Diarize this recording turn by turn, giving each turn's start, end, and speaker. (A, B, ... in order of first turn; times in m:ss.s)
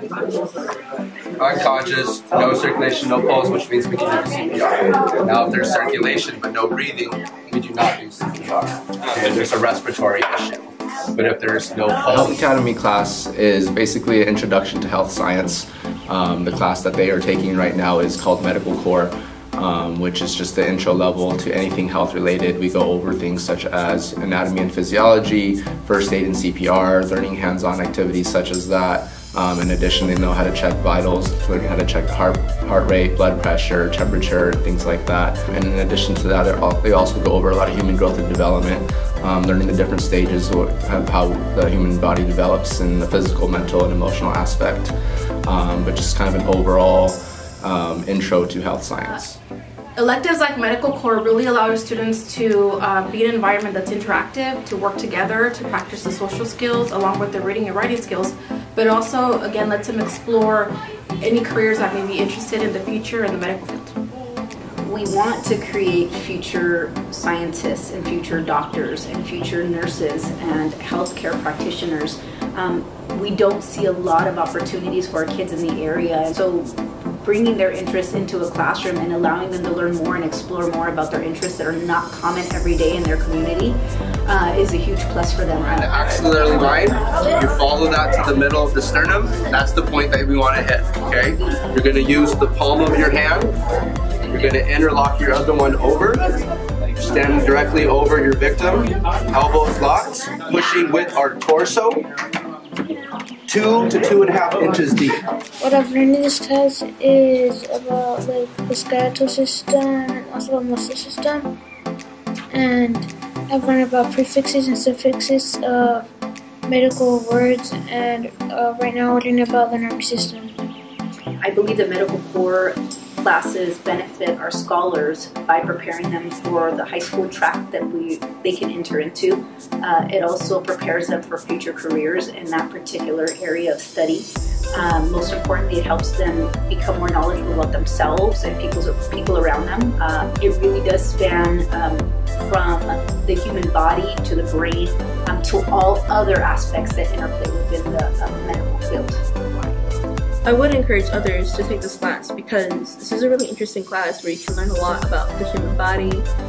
0:01.4-0:12.4 A
0:12.1-0:44.9 B
0:45.4-0:49.4 B
0:50.0-1:00.7 C
1:01.2-1:03.9 C
1:04.8-1:25.9 D
1:25.7-1:33.5 A
1:34.3-1:36.3 A
1:36.8-1:42.0 A
1:43.5-1:45.2 A
1:45.6-1:51.5 E
1:52.5-1:56.1 E
1:56.7-2:00.5 E
2:01.4-2:29.3 D
2:30.4-2:36.3 F